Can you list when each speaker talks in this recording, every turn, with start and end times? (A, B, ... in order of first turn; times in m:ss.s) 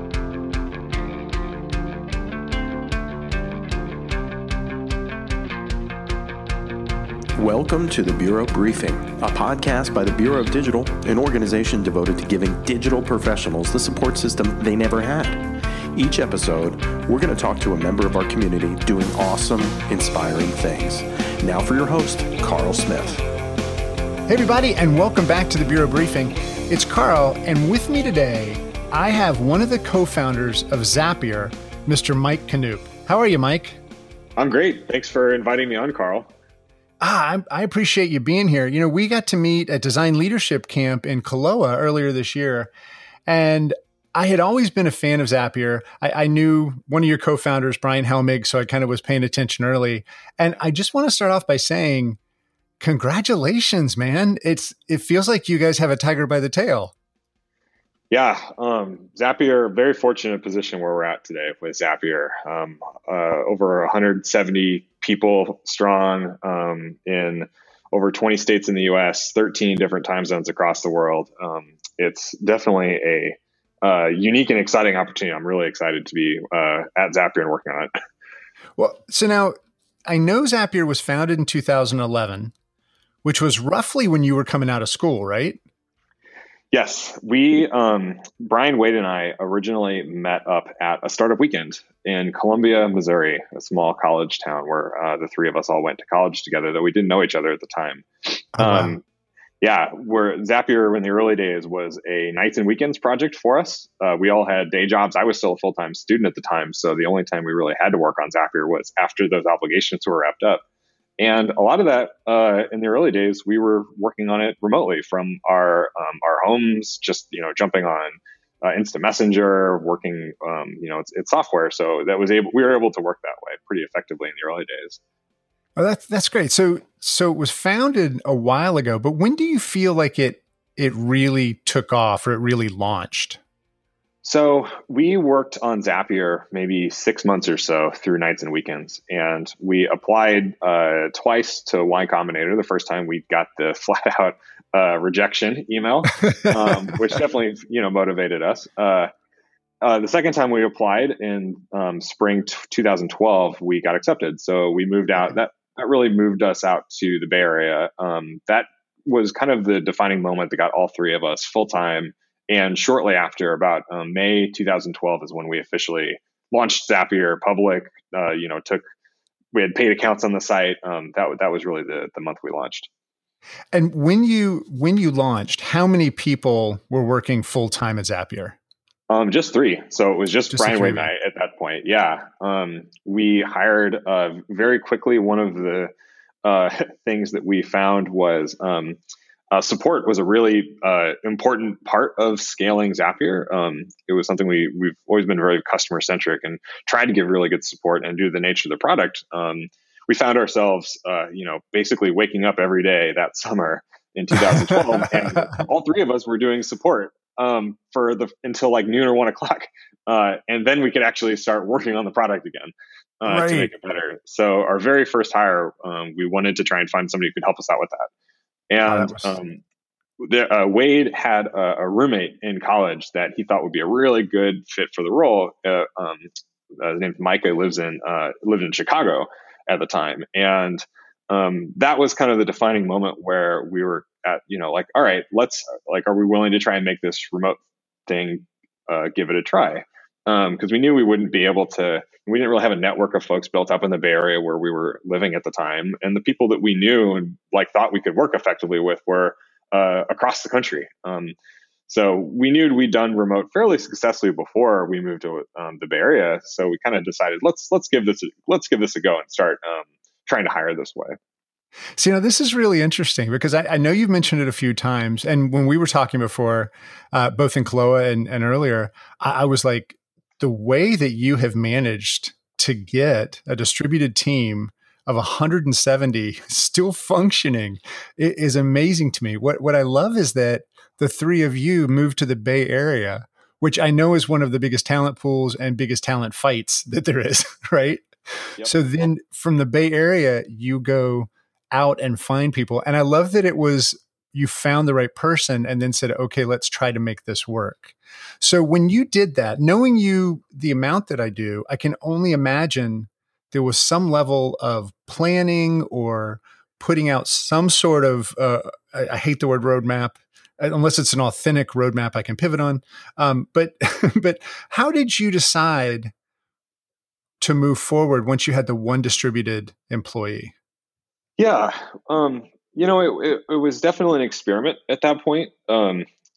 0:07.4-0:15.4 A
0:16.0-0:23.2 A
0:24.3-0:33.8 B
0:34.4-0:36.3 C
0:37.0-0:42.7 B
0:43.3-0:52.2 B
0:52.8-0:56.9 B
0:58.1-1:17.9 C
1:18.8-1:19.6 B
1:20.1-1:22.5 B
1:23.2-1:25.6 B
1:26.7-1:39.0 C
1:38.6-1:39.0 B
1:39.6-1:50.6 C
1:51.2-2:05.0 C
2:05.8-2:13.4 B
2:14.2-2:29.1 C
2:29.8-2:48.8 C
2:49.5-2:52.9 C
2:53.7-2:58.6 B
2:59.1-3:05.9 C
3:00.5-3:01.1 B
3:06.4-3:09.0 C
3:09.5-3:38.1 C
3:33.3-3:33.7 B
3:38.7-3:39.6 C
3:38.9-3:39.4 B
3:40.2-4:11.4 C
4:11.9-4:21.1 C
4:22.0-4:48.0 B
4:48.6-5:16.1 B
5:17.4-5:20.6 B
5:21.4-5:26.1 C